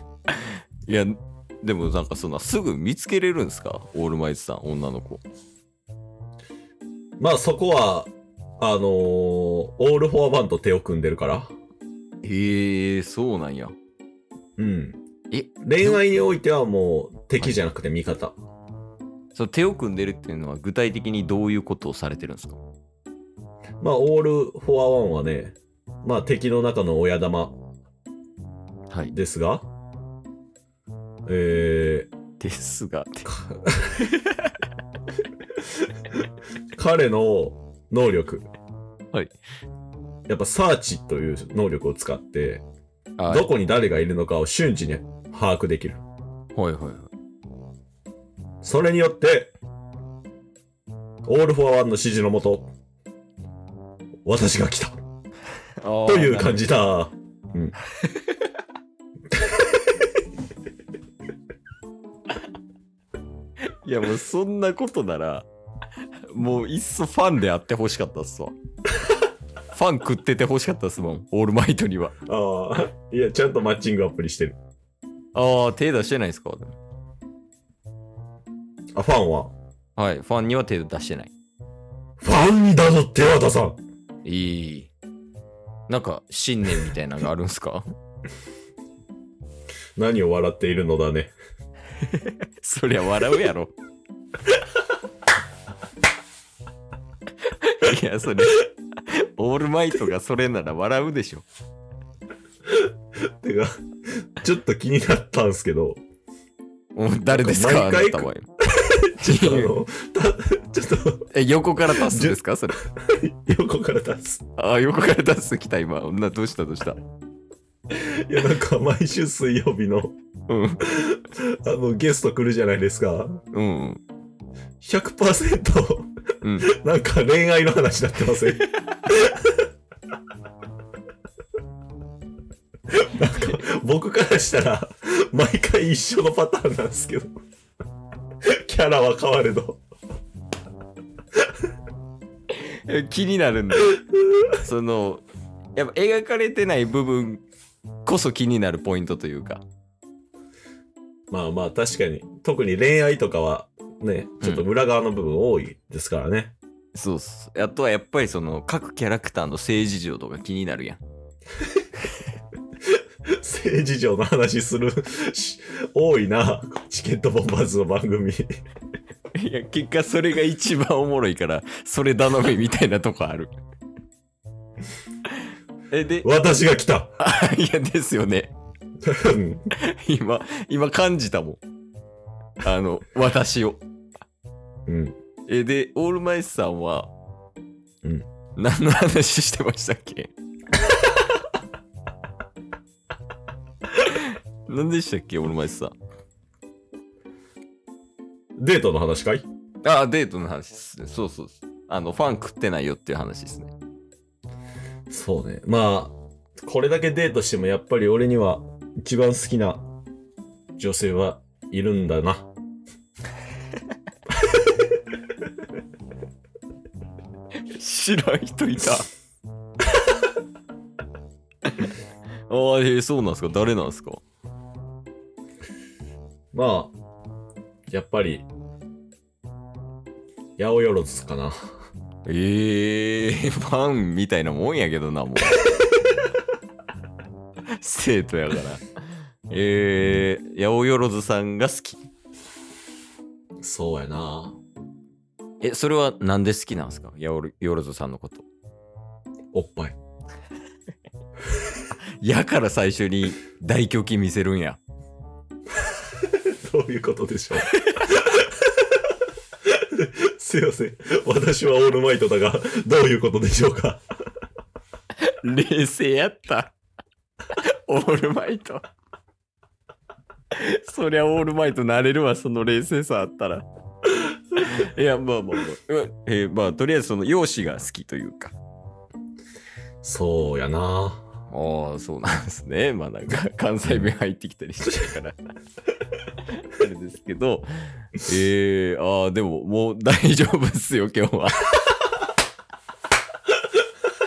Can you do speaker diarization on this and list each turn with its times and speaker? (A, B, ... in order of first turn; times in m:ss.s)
0:00.9-0:05.2 A
0:07.2-0:11.5 B
0:12.2-0:13.8 A
0:14.6-0:15.0 B
0:15.3-0:16.0 A
0:15.6-0:18.4 B
0:19.4-0:22.6 A
0:23.8-0:27.6 B
0:29.1-0:29.7 B
0:31.2-0:32.1 B
0:32.4-0:33.3 A
0:33.2-0:34.0 B
0:34.0-0:34.5 A
0:36.8-0:38.5 B
0:40.3-0:42.6 B
0:43.2-0:43.5 A
0:43.3-0:46.0 B
0:46.6-0:47.1 A
0:48.6-0:49.5 B
0:51.2-0:52.7 B
0:54.2-0:55.0 B
0:55.8-0:56.6 A
0:56.1-0:57.8 B
0:58.0-0:58.4 A
1:03.8-1:05.5 A
1:06.3-1:08.6 A
1:09.7-1:12.2 A
1:12.3-1:14.6 B
1:15.4-1:16.8 A
1:18.9-1:19.5 B
1:20.0-1:21.3 A
1:22.2-1:23.8 B
1:24.2-1:24.9 A
1:25.9-1:27.9 A
1:30.0-1:31.3 B
1:32.0-1:33.7 A
1:37.5-1:41.4 A
1:42.7-1:46.0 B
1:46.9-1:48.5 A
1:47.3-1:51.2 B
1:49.2-1:49.8 A
1:51.3-1:52.8 A
1:51.9-1:54.4 B
1:54.6-1:57.0 A
1:57.9-2:00.2 B
2:00.5-2:00.9 A
2:00.8-2:03.4 B
2:03.5-2:04.0 A
2:04.8-2:09.7 B
2:06.4-2:06.7 A
2:12.9-2:17.3 B
2:18.4-2:19.8 B
2:22.5-2:25.2 A
2:25.8-2:27.4 A
2:28.0-2:29.6 A
2:31.3-2:36.6 B
2:34.4-2:34.7 A
2:36.9-2:41.0 A
2:43.3-2:48.5 B
2:49.3-2:53.5 A
2:55.9-2:56.3 A
2:56.2-2:57.2 B
2:57.2-2:58.5 A
2:59.0-2:59.7 B
2:59.8-3:01.6 A
3:02.6-3:03.8 A
3:04.9-3:05.2 B
3:05.5-3:07.1 A
3:08.6-3:10.3 A
3:13.9-3:15.9 A
3:18.6-3:19.4 B
3:19.8-3:23.7 A
3:25.1-3:29.8 B
3:30.8-3:32.5 B
3:37.6-3:39.1 A
3:42.5-3:44.2 A
3:46.5-3:46.9 B
3:47.9-3:48.4 B
3:50.6-3:51.6 B
3:52.3-3:55.8 A
3:57.7-3:58.9 A
3:59.5-4:02.1 A
4:03.6-4:04.6 B
4:05.6-4:08.4 A
4:09.5-4:09.9 B
4:12.2-4:14.8 A
4:15.8-4:18.8 B
4:17.7-4:18.1 A
4:19.6-4:24.0 B
4:25.2-4:26.7 A
4:27.5-4:28.9 A
4:30.5-4:33.7 A
4:34.3-4:38.6 A
4:40.0-4:41.3 B
4:41.5-4:45.4 A
4:46.4-4:51.9 A